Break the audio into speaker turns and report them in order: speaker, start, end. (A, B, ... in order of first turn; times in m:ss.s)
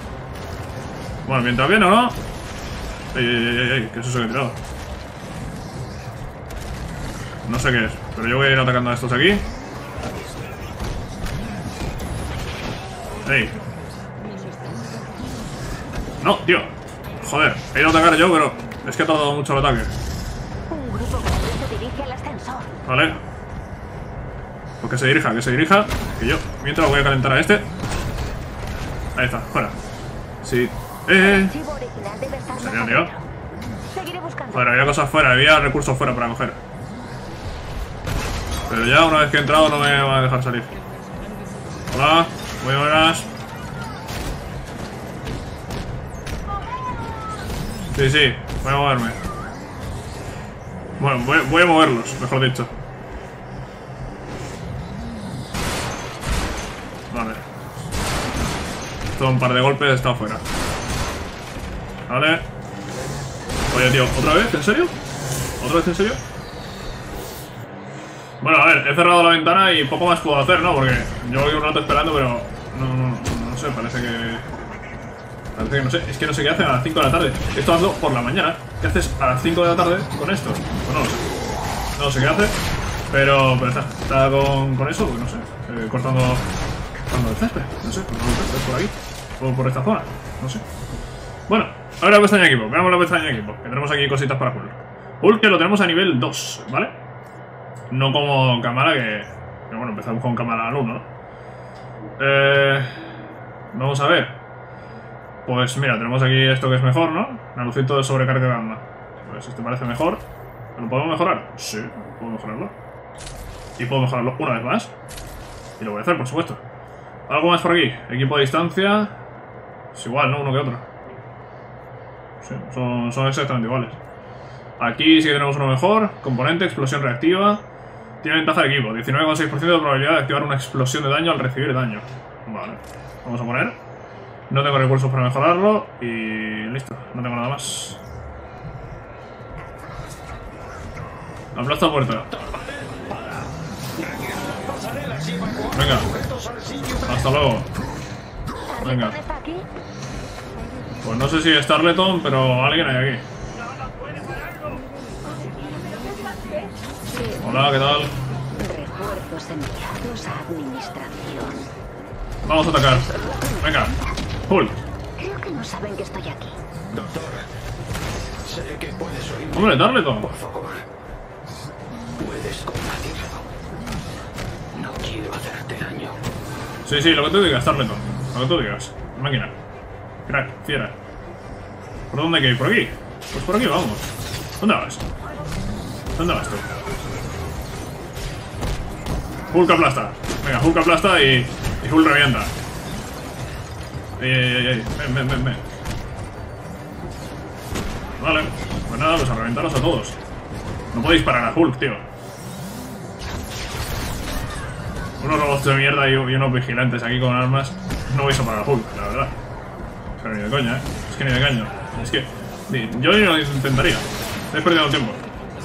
0:01.2-0:02.2 A
0:03.1-0:04.6 A
0:07.4-0:09.4 A
0:13.2-0:13.6 A
0:16.2-0:19.9 A
0:20.7-0:22.7 B
0:22.8-0:23.2 A
0:24.8-0:27.7 A
0:29.1-0:29.8 A
0:30.4-0:31.5 A
0:31.1-0:33.2 B
0:32.6-0:33.1 A
0:33.9-0:34.9 B
0:34.5-0:36.6 A
0:38.7-0:40.7 A
0:41.9-0:43.3 A
0:47.9-0:49.2 A
0:51.0-0:52.7 A
0:57.1-0:57.4 A
0:59.1-1:00.4 A
1:02.1-1:02.5 A
1:03.7-1:04.9 A
1:05.6-1:06.2 A
1:08.4-1:14.5 A
1:15.5-1:21.3 A
1:21.9-1:22.6 A
1:23.1-1:26.4 A
1:27.1-1:30.6 A
1:31.5-1:37.0 A
1:37.9-1:41.1 A
1:42.2-1:43.0 A
1:43.7-1:44.4 A
1:45.4-1:50.2 A
1:50.7-1:52.7 A
1:53.8-1:54.9 A
1:55.8-1:56.6 A
1:57.3-1:59.2 A
1:59.9-2:00.9 A
2:02.4-2:04.0 A
2:04.8-2:07.6 A
2:08.2-2:13.8 A
2:14.5-2:18.0 A
2:21.5-2:22.3 A
2:22.3-2:27.1 C
2:25.7-2:26.1 A
2:27.0-2:27.7 A
2:28.7-2:29.7 B
2:28.8-2:29.2 A
2:31.0-2:33.2 A
2:35.2-2:37.6 B
2:37.4-2:38.1 A
2:38.6-2:41.7 B
2:42.4-2:43.1 A
2:42.8-2:44.2 B
2:43.6-2:43.9 A
2:44.5-2:44.8 A
2:45.2-2:46.6 B
2:46.9-2:47.5 C
2:48.4-2:50.9 C
2:49.5-2:50.3 A
2:52.2-2:53.6 C
2:54.7-2:56.2 C
2:56.8-2:59.5 A
3:00.3-3:01.0 A
3:02.1-3:05.0 A
3:06.2-3:06.7 A
3:09.5-3:12.5 A
3:14.2-3:15.6 A
3:18.2-3:20.2 A
3:20.9-3:22.0 A
3:25.2-3:29.4 A
3:30.2-3:35.2 A